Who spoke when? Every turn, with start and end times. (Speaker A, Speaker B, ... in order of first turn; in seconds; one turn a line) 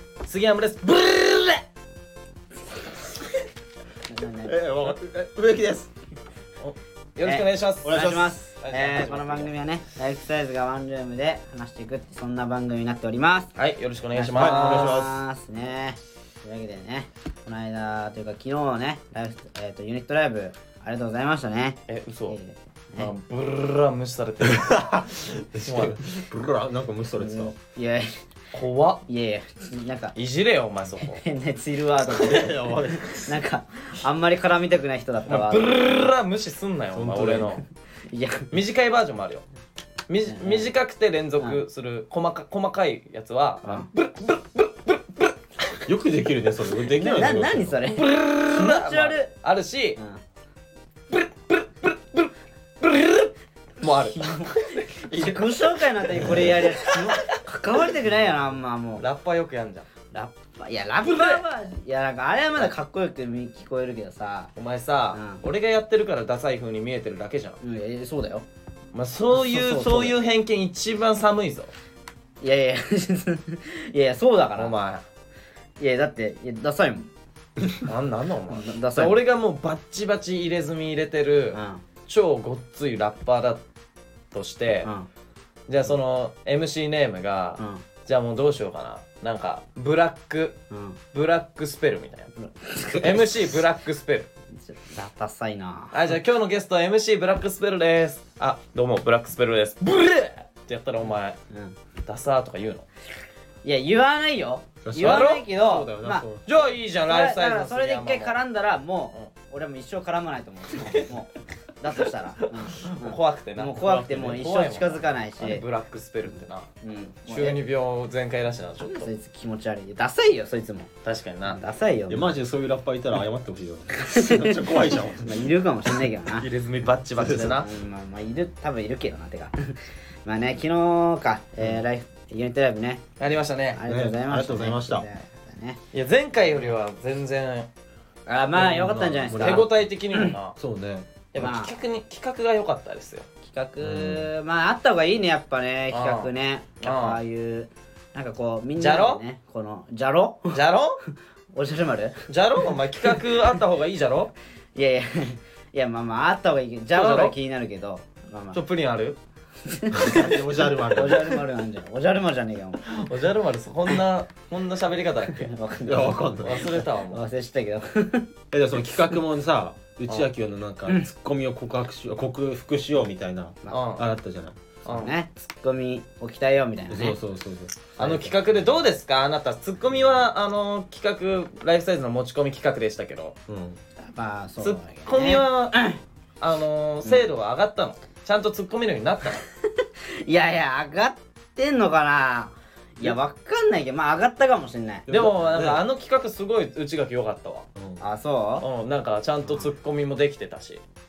Speaker A: 0.2-1.6
Speaker B: 4.1-4.5
Speaker C: 4.5-5.9
Speaker A: 7.2-9.5
Speaker B: 7.2-13.5
Speaker C: 7.8-8.3
Speaker A: 13.6-15.0
Speaker B: 14.1-23.1
Speaker C: 14.3-15.2
Speaker A: 21.9-22.4
Speaker A: 23.0-25.1
Speaker C: 24.4-27.5
Speaker A: 25.6-26.0
Speaker B: 27.2-28.1
Speaker A: 28.5-29.0
Speaker B: 29.1-30.1
Speaker A: 30.1-31.2
Speaker B: 31.1-35.7
Speaker C: 32.1-33.4
Speaker A: 35.3-37.6
Speaker C: 36.9-37.6
Speaker B: 38.1-38.5
Speaker A: 38.5-39.4
Speaker A: 40.1-45.3
Speaker B: 40.3-40.7
Speaker C: 45.9-47.8
Speaker B: 47.0-49.3
Speaker A: 47.9-50.0
Speaker A: 51.1-55.6
Speaker B: 54.0-59.0
Speaker C: 56.2-56.5
Speaker A: 56.7-57.2
Speaker A: 59.0-59.9
Speaker B: 60.1-64.5
Speaker A: 61.0-61.4
Speaker A: 64.5-67.6
Speaker B: 65.1-65.4
Speaker B: 67.6-68.4
Speaker A: 68.9-71.7
Speaker B: 69.3-70.1
Speaker B: 72.4-74.7
Speaker A: 74.6-75.0
Speaker B: 75.8-77.1
Speaker A: 77.8-83.6
Speaker B: 78.5-79.1
Speaker B: 81.5-81.8
Speaker A: 84.3-84.9
Speaker A: 85.7-90.6
Speaker B: 87.6-87.8
Speaker B: 90.7-91.0
Speaker A: 91.1-92.3
Speaker B: 92.3-93.2
Speaker A: 93.0-94.3
Speaker B: 94.5-96.0
Speaker A: 95.9-101.4
Speaker B: 101.5-101.8
Speaker A: 102.0-102.8
Speaker B: 103.6-106.2
Speaker C: 104.8-106.4
Speaker A: 105.0-105.5
Speaker A: 106.5-108.4
Speaker B: 107.0-115.6
Speaker A: 112.6-116.7
Speaker C: 113.8-114.4
Speaker B: 116.8-117.6
Speaker A: 117.3-119.1
Speaker B: 118.8-120.9
Speaker A: 121.0-121.6
Speaker B: 121.4-122.3
Speaker C: 122.1-125.5
Speaker B: 123.9-126.5
Speaker A: 126.4-127.7
Speaker C: 127.2-127.5
Speaker B: 127.3-133.0
Speaker A: 133.2-133.8
Speaker B: 133.7-135.8
Speaker C: 133.9-135.1
Speaker A: 135.9-137.7
Speaker B: 138.3-140.3
Speaker C: 138.5-139.7
Speaker A: 139.3-140.6
Speaker C: 140.6-141.5
Speaker A: 141.3-143.2
Speaker B: 141.4-141.7
Speaker B: 143.4-150.6
Speaker C: 143.8-144.3
Speaker A: 145.9-146.3
Speaker A: 146.8-147.2
Speaker A: 148.8-149.2
Speaker A: 150.5-151.0
Speaker B: 151.5-152.2
Speaker A: 152.3-154.3
Speaker B: 154.7-158.6
Speaker A: 156.9-157.3
Speaker A: 158.5-159.2
Speaker B: 159.6-162.8
Speaker C: 160.0-161.4
Speaker A: 162.8-165.5
Speaker B: 165.3-168.3
Speaker C: 165.8-166.8
Speaker A: 166.4-167.2
Speaker C: 168.5-174.6
Speaker A: 173.7-174.1
Speaker B: 174.8-177.2
Speaker A: 174.8-175.1
Speaker C: 176.9-178.7
Speaker A: 178.0-183.3
Speaker C: 183.5-183.8
Speaker B: 184.0-186.0
Speaker A: 184.6-185.8
Speaker A: 186.4-189.4
Speaker B: 190.2-195.1
Speaker C: 195.1-195.8
Speaker A: 195.1-197.7
Speaker C: 197.8-198.0
Speaker B: 198.0-198.6
Speaker A: 198.6-200.8